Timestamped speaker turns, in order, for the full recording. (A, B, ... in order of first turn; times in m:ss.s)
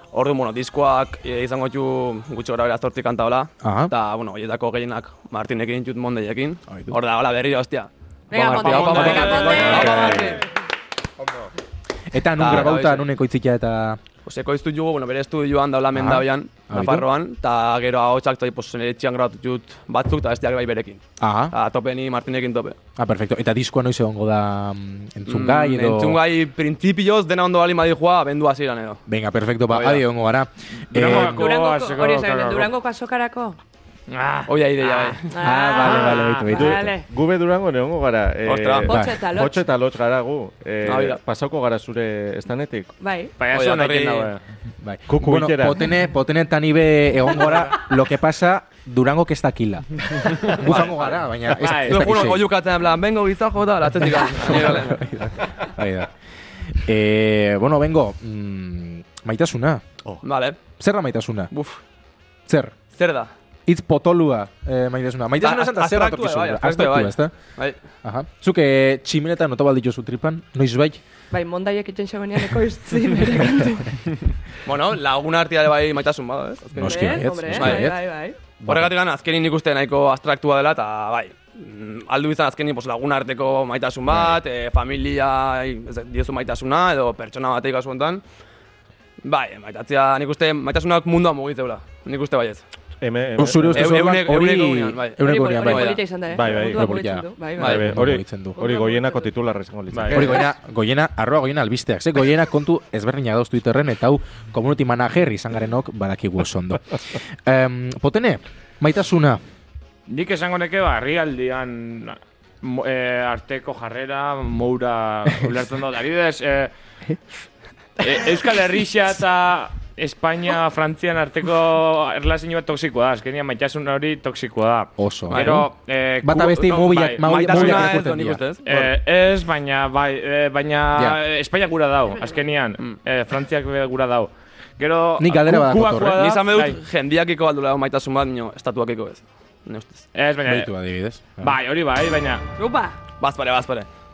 0:00.1-0:10.4 A
0:03.6-0:03.9 B
0:06.7-0:07.0 B
0:08.3-0:10.3 C
0:08.3-0:10.4 B
0:08.8-0:09.6 D
0:09.7-0:10.4 E
0:12.1-0:14.0 B
0:12.4-0:13.1 A
0:14.2-0:22.8 A
0:15.9-0:17.1 B
0:21.2-0:21.5 B
0:23.0-0:26.2 B
0:25.3-0:29.0 A
0:29.1-0:31.5 B
0:29.7-0:30.0 A
0:30.9-0:32.7 D
0:31.0-0:33.6 C
0:34.1-0:35.2 D
0:34.5-0:35.3 A
0:35.3-0:37.1 C
0:35.4-0:36.9 B
0:35.8-0:42.9 E
0:38.4-0:38.9 A
0:38.8-0:39.6 C
0:38.9-0:39.2 B
0:40.8-0:41.2 A
0:43.0-0:43.3 C
0:43.4-0:44.4 D
0:43.5-0:44.3 A
0:44.8-0:52.5 B
0:45.1-0:45.9 E
0:50.4-0:50.8 D
0:50.5-0:51.2 A
0:51.5-0:52.2 D
0:51.7-0:55.0 A
0:54.4-0:56.1 B
0:56.7-0:59.8 B
1:00.2-1:00.6 A
1:00.8-1:01.5 B
1:01.5-1:01.8 A
1:02.5-1:02.8 B
1:02.9-1:03.3 A
1:03.7-1:07.4 B
1:05.4-1:07.8 A
1:08.0-1:11.0 B
1:11.3-1:14.0 C
1:14.6-1:17.9 A
1:16.7-1:18.0 B
1:16.8-1:18.4 C
1:18.7-1:18.9 B
1:18.7-1:28.2 A
1:29.2-1:32.6 A
1:33.0-1:34.0 E
1:33.4-1:38.6 B
1:33.7-1:36.5 A
1:35.2-1:38.1 C
1:36.3-1:36.9 E
1:37.6-1:40.5 E
1:38.6-1:39.3 C
1:39.9-1:40.4 D
1:40.1-1:49.4 B
1:50.1-1:56.7 D
1:58.0-2:08.0 D
2:05.0-2:05.7 B
2:05.3-2:05.6 A
2:06.2-2:08.4 B
2:07.2-2:09.0 A
2:08.6-2:16.8 D
2:10.9-2:11.2 B
2:12.1-2:12.4 C
2:15.2-2:16.2 B
2:16.1-2:20.0 A
2:20.1-2:20.7 D
2:20.5-2:21.6 B
2:21.3-2:22.4 D
2:22.6-2:23.0 C
2:23.2-2:23.9 A